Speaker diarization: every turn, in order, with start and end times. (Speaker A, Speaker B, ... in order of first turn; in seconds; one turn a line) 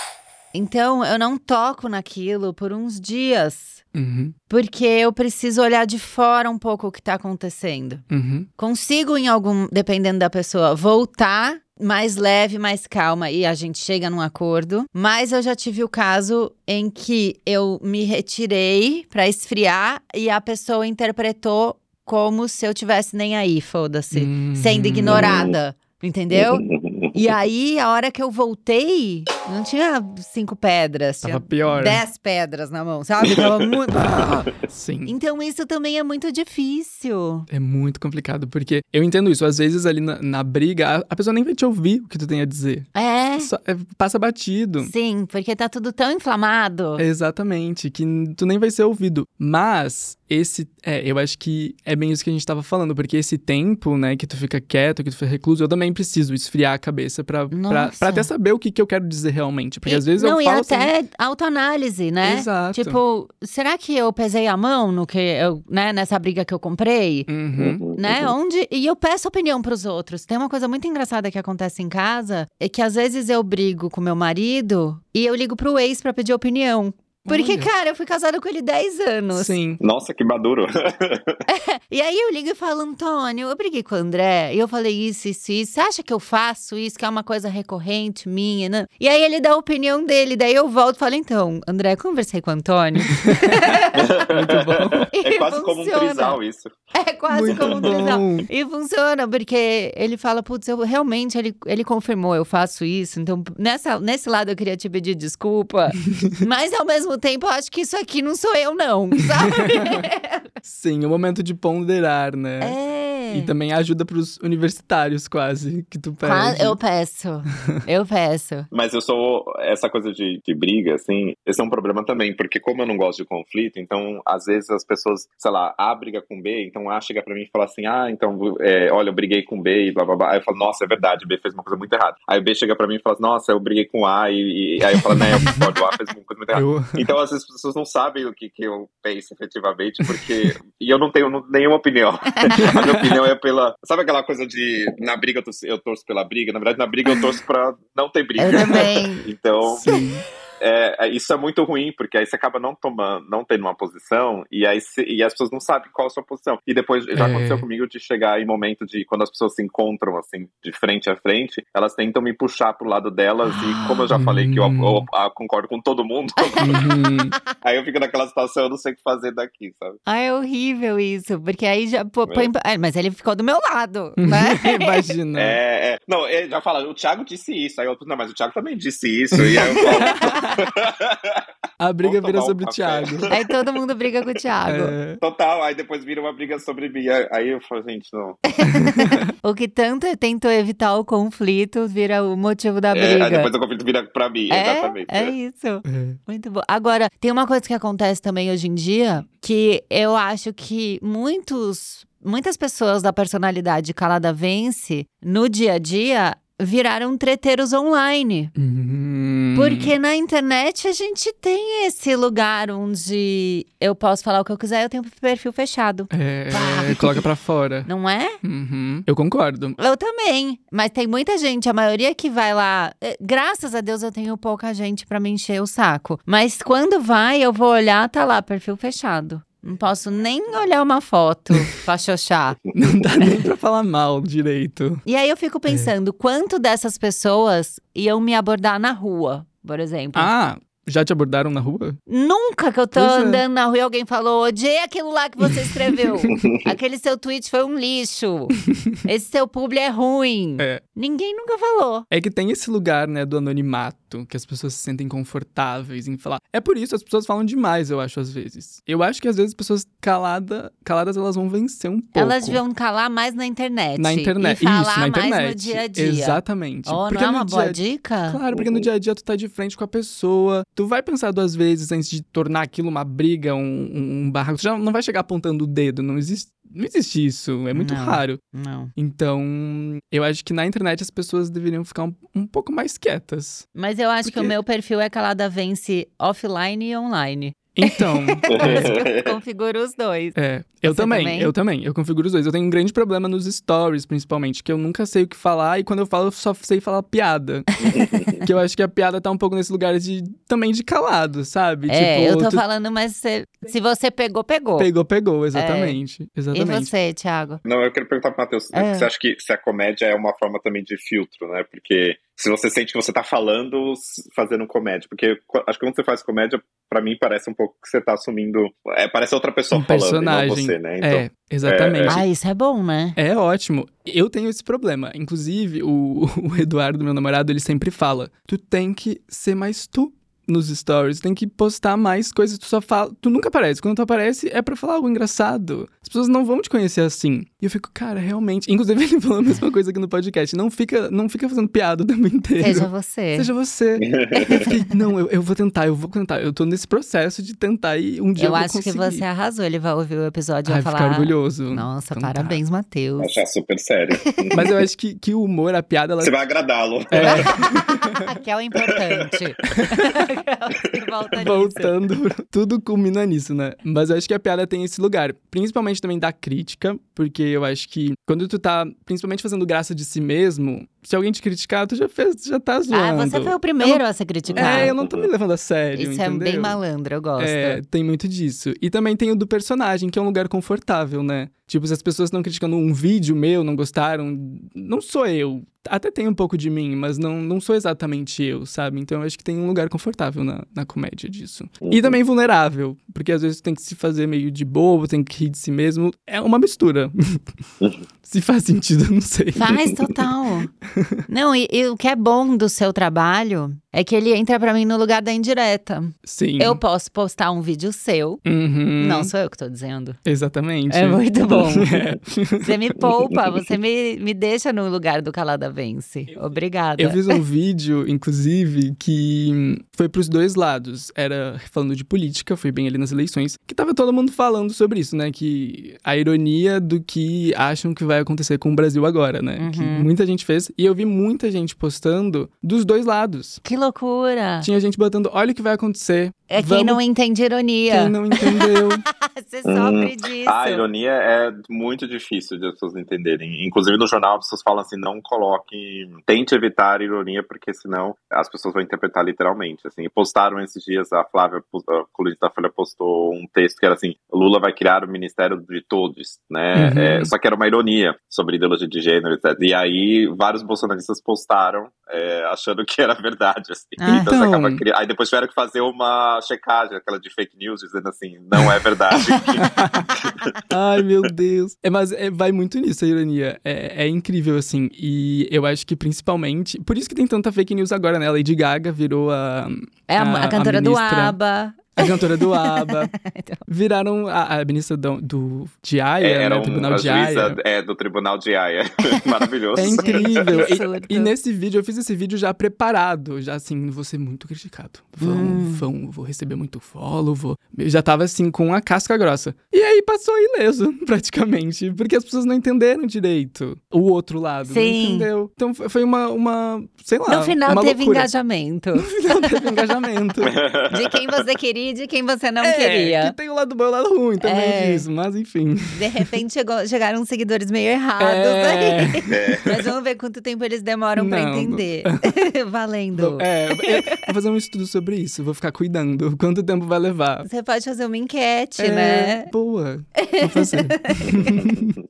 Speaker A: 0.5-3.8
Speaker B: 3.9-4.3
Speaker A: 4.5-8.0
Speaker B: 8.1-8.5
Speaker A: 8.6-34.5
Speaker B: 24.1-25.3
Speaker C: 25.1-25.5
Speaker C: 26.3-27.1
Speaker B: 31.2-32.0
Speaker B: 34.6-35.1
Speaker A: 35.0-37.5
Speaker B: 37.5-44.9
Speaker A: 42.9-43.5
Speaker A: 44.8-47.0
Speaker B: 47.0-60.9
Speaker A: 57.5-58.3
Speaker A: 59.9-67.3
Speaker B: 62.2-63.0
Speaker B: 67.3-67.8
Speaker C: 67.6-68.3
Speaker A: 68.0-79.5
Speaker B: 77.2-77.7
Speaker B: 79.3-79.8
Speaker C: 79.8-81.4
Speaker A: 81.5-94.0
Speaker C: 93.9-96.7
Speaker B: 94.3-95.1
Speaker A: 95.1-96.4
Speaker A: 96.9-110.5
Speaker B: 97.3-98.5
Speaker C: 97.5-97.9
Speaker B: 110.6-112.8
Speaker A: 112.6-113.5
Speaker B: 113.3-116.8
Speaker A: 116.2-118.7
Speaker C: 118.7-149.9
Speaker B: 135.2-135.7
Speaker B: 136.5-137.0
Speaker B: 140.1-140.5
Speaker B: 142.5-143.2
Speaker A: 148.4-149.2
Speaker B: 148.5-148.9
Speaker B: 149.6-150.2
Speaker C: 150.6-166.8
Speaker B: 157.1-157.6
Speaker A: 163.5-164.1
Speaker B: 164.1-165.1
Speaker A: 166.5-166.9
Speaker B: 166.6-167.3
Speaker C: 167.6-170.0
Speaker A: 170.1-175.1
Speaker B: 174.2-175.6
Speaker C: 175.3-181.4
Speaker B: 179.4-180.5
Speaker A: 179.5-180.5
Speaker B: 181.8-183.3
Speaker C: 182.0-183.5
Speaker A: 183.3-184.9
Speaker B: 184.7-185.2
Speaker C: 185.2-188.4
Speaker A: 188.5-193.5
Speaker B: 188.8-189.2
Speaker C: 192.9-195.3
Speaker A: 194.5-208.5
Speaker B: 195.8-196.2
Speaker B: 208.6-209.9
Speaker A: 209.5-217.2
Speaker B: 216.1-217.9
Speaker A: 217.8-218.4
Speaker B: 218.4-219.8
Speaker A: 219.8-232.6
Speaker B: 232.7-235.0
Speaker A: 235.1-240.3
Speaker B: 240.1-242.0
Speaker A: 242.1-252.1
Speaker B: 242.9-243.4
Speaker B: 245.5-246.4
Speaker C: 246.3-246.6
Speaker B: 252.1-262.6
Speaker A: 262.1-268.4
Speaker B: 264.0-278.4
Speaker C: 268.5-268.9
Speaker A: 277.7-278.9
Speaker B: 278.9-283.7
Speaker A: 283.7-290.3
Speaker B: 287.7-288.9
Speaker C: 288.5-289.3
Speaker B: 290.3-297.7
Speaker A: 290.9-291.5
Speaker C: 297.8-298.4
Speaker B: 298.4-302.6
Speaker A: 301.9-304.9
Speaker B: 304.8-306.9
Speaker A: 305.5-306.0
Speaker A: 306.5-307.6
Speaker C: 307.6-322.2
Speaker A: 308.7-309.1
Speaker B: 319.7-322.2
Speaker A: 322.1-323.2
Speaker B: 323.1-349.2
Speaker A: 342.6-343.5
Speaker C: 344.0-344.7
Speaker A: 344.4-344.8
Speaker A: 348.4-353.4
Speaker B: 350.7-352.6
Speaker C: 353.2-354.7
Speaker B: 354.5-356.3
Speaker C: 356.2-357.8
Speaker B: 357.1-358.1
Speaker A: 357.2-361.9
Speaker C: 358.9-359.8
Speaker B: 361.4-374.0
Speaker A: 372.9-374.9
Speaker C: 374.5-375.3
Speaker B: 374.6-376.8
Speaker A: 375.9-377.8
Speaker B: 377.4-397.6
Speaker C: 391.8-392.2
Speaker B: 398.2-399.8
Speaker A: 399.5-400.7
Speaker B: 400.9-401.2
Speaker A: 401.3-408.4
Speaker B: 406.2-406.8
Speaker B: 408.4-409.3
Speaker A: 409.0-410.2
Speaker B: 410.2-412.8
Speaker A: 410.9-412.0
Speaker A: 412.6-417.4
Speaker B: 416.3-433.6
Speaker A: 429.6-430.1
Speaker A: 433.6-434.7
Speaker B: 434.6-437.0
Speaker A: 436.5-440.8
Speaker B: 437.9-439.0
Speaker C: 439.6-470.6
Speaker B: 456.7-457.3
Speaker A: 464.0-464.3
Speaker B: 464.1-464.8
Speaker B: 469.6-470.1
Speaker B: 470.7-481.4
Speaker A: 480.1-483.6
Speaker B: 482.0-483.1
Speaker B: 483.7-487.6
Speaker C: 486.2-490.7
Speaker B: 489.8-508.3
Speaker A: 489.8-491.3
Speaker A: 495.2-495.8
Speaker A: 504.6-505.3
Speaker A: 507.3-509.9
Speaker B: 509.0-510.5
Speaker C: 510.4-511.2
Speaker A: 510.9-513.4
Speaker B: 512.6-516.3
Speaker A: 514.4-515.0
Speaker A: 515.9-524.3
Speaker B: 518.2-519.3
Speaker C: 519.3-519.7
Speaker B: 521.1-522.3
Speaker B: 523.1-527.5
Speaker A: 527.4-529.5
Speaker B: 528.8-531.9
Speaker A: 530.2-531.6